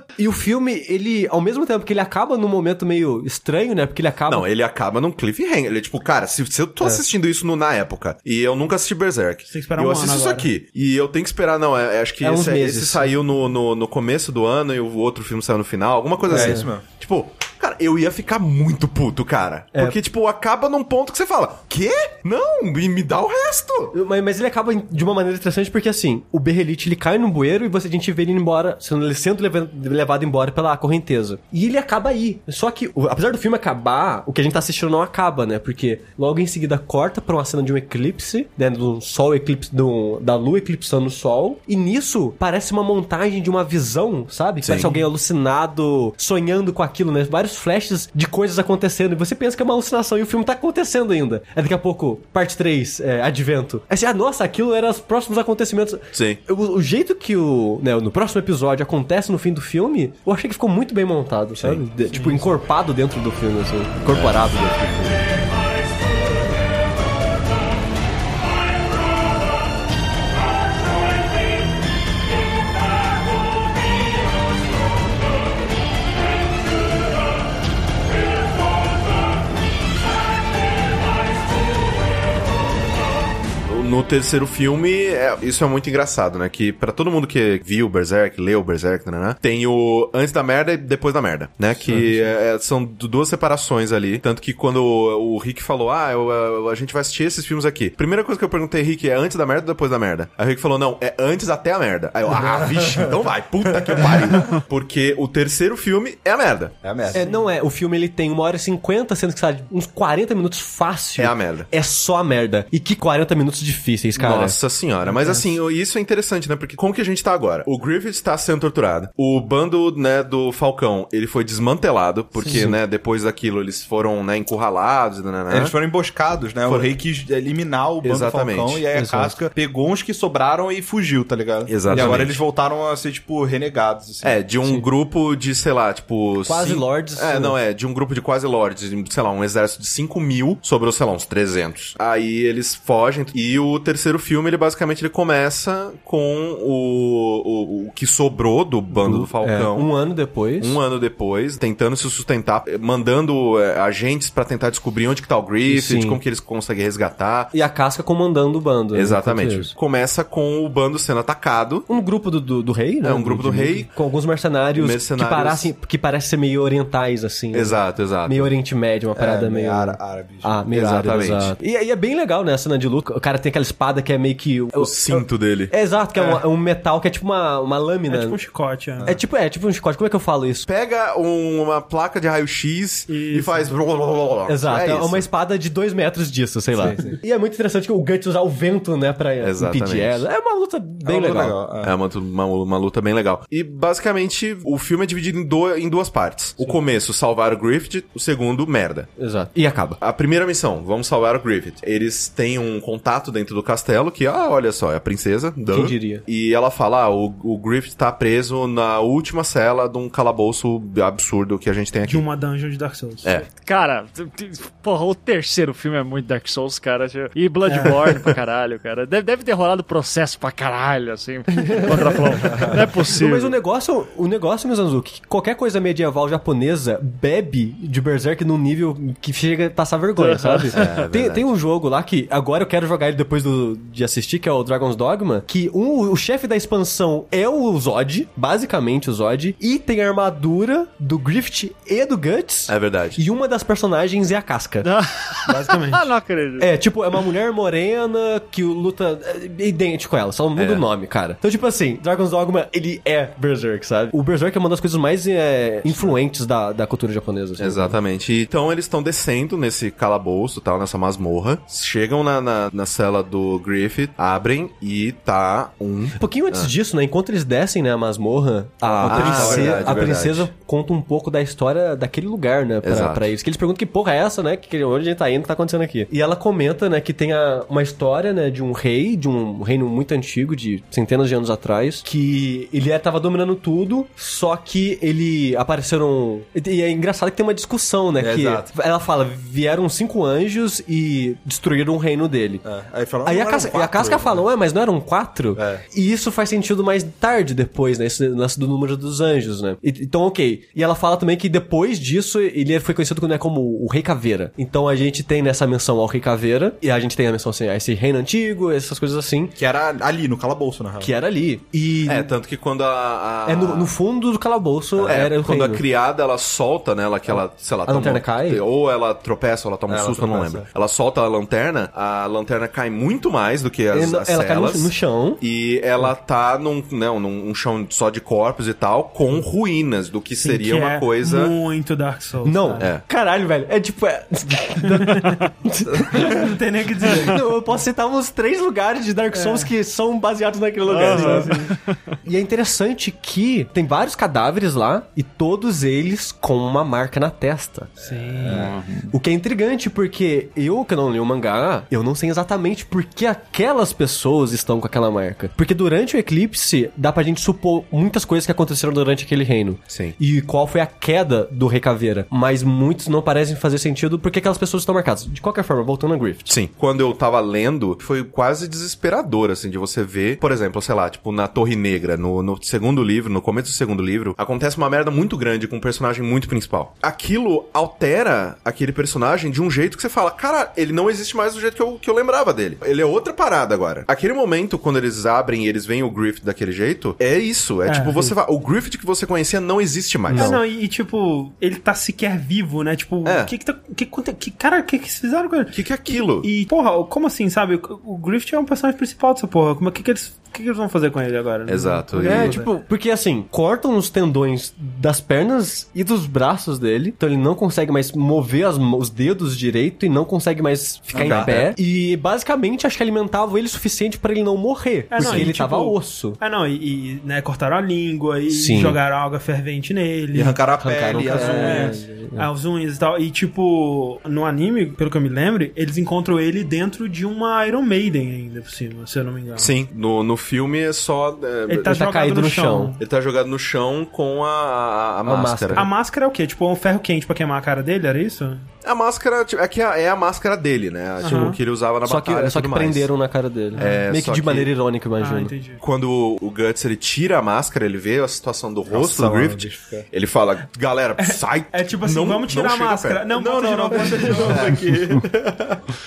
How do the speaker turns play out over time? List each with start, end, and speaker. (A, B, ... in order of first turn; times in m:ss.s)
0:00.2-0:04.4 A
0:04.3-0:23.9 B
0:09.5-0:10.5 C
0:12.2-0:13.1 A
0:16.3-0:16.8 D
0:16.3-0:16.7 A
0:23.9-1:05.2 A
0:44.6-0:44.9 B
0:56.1-0:56.4 B
1:01.6-1:01.8 B
1:02.1-1:02.5 C
1:04.1-1:04.4 B
1:23.6-1:46.7 B
1:42.4-1:43.2 D
1:43.7-1:44.4 D
1:46.8-1:47.3 D
1:47.1-1:54.6 A
1:51.2-1:51.7 B
1:54.2-2:05.7 B
1:55.0-1:55.5 C
2:02.4-2:02.6 C
2:02.4-2:02.8 A
2:05.5-2:14.4 D
2:06.6-2:06.9 B
2:08.0-2:08.8 B
2:08.9-2:09.4 A
2:11.7-2:12.4 B
2:11.9-2:12.3 A
2:14.2-2:29.9 B
2:16.4-2:17.6 A
2:28.9-2:30.8 A
2:30.6-2:37.5 B
2:35.6-2:36.2 A
2:37.5-2:39.7 A
2:38.9-2:41.9 B
2:41.9-2:58.4 A
2:43.0-2:43.9 B
2:44.8-2:45.7 B
2:47.5-2:48.5 B
2:49.1-2:50.6 D
2:50.7-2:51.5 B
2:54.8-2:55.7 B
2:58.1-2:59.1 C
2:58.9-2:59.2 D
2:59.0-3:00.7 A
3:00.7-3:05.2 B
3:03.1-3:03.7 C
3:04.4-3:11.6 A
3:06.8-3:07.2 D
3:09.4-3:10.2 B
3:11.0-3:11.9 D
3:11.8-3:19.1 B
3:19.2-3:20.0 A
3:20.0-3:32.2 B
3:25.7-3:26.2 A
3:32.0-3:33.4 C
3:33.5-3:43.6 E
3:37.7-3:38.3 C
3:41.7-4:04.9 A
3:50.2-3:50.9 E
3:50.7-3:51.4 B
4:02.7-4:03.2 B
4:04.8-4:06.7 E
4:05.4-4:06.1 C
4:06.6-4:18.0 A
4:10.6-4:10.8 B
4:17.6-4:26.7 B
4:26.2-4:52.6 A
4:28.8-4:30.5 B
4:29.0-4:30.1 D
4:32.8-4:33.3 B
4:48.2-4:48.7 D
4:52.6-4:54.4 D
4:53.2-5:09.5 A
4:55.6-4:55.8 D
5:09.6-5:11.1 D
5:11.0-5:12.3 A
5:12.1-5:13.9 B
5:13.4-5:15.8 A
5:15.0-5:15.2 D
5:15.0-5:31.5 B
5:17.3-5:18.6 A
5:19.9-5:20.6 D
5:23.9-5:25.4 A
5:30.4-5:32.9 C
5:32.4-5:36.5 A
5:34.8-5:35.4 C
5:35.9-5:36.4 D
5:36.1-5:37.4 C
5:37.1-5:41.7 A
5:39.3-5:39.7 C
5:40.9-5:41.8 C
5:40.9-5:42.2 E
5:42.2-5:48.0 A
5:48.0-5:48.7 D
5:48.0-5:48.7 C
5:48.5-5:49.1 E
5:49.1-6:06.6 A
5:59.9-6:00.2 B
6:06.5-6:30.5 B
6:27.8-6:28.3 C
6:30.3-6:42.7 C
6:30.3-6:30.6 A
6:33.2-6:33.5 B
6:35.7-6:36.5 B
6:41.6-6:42.6 B
6:42.1-6:56.4 A
6:51.1-6:51.7 D
6:51.1-6:51.7 B
6:55.1-7:09.7 C
6:58.5-6:59.0 A
7:00.3-7:02.0 D
7:00.8-7:02.5 A
7:09.6-7:12.0 B
7:11.7-7:13.0 C
7:11.8-7:13.0 A
7:13.0-7:15.9 B
7:15.2-7:15.9 A
7:15.7-7:18.7 C
7:18.8-7:23.1 B
7:21.2-7:21.6 C
7:21.2-7:25.5 A
7:23.7-7:24.0 C
7:23.8-7:24.7 B
7:25.2-7:25.8 C
7:25.8-7:33.2 B
7:28.9-7:30.1 D
7:31.2-7:34.9 C
7:33.3-7:35.3 D
7:34.4-7:35.8 B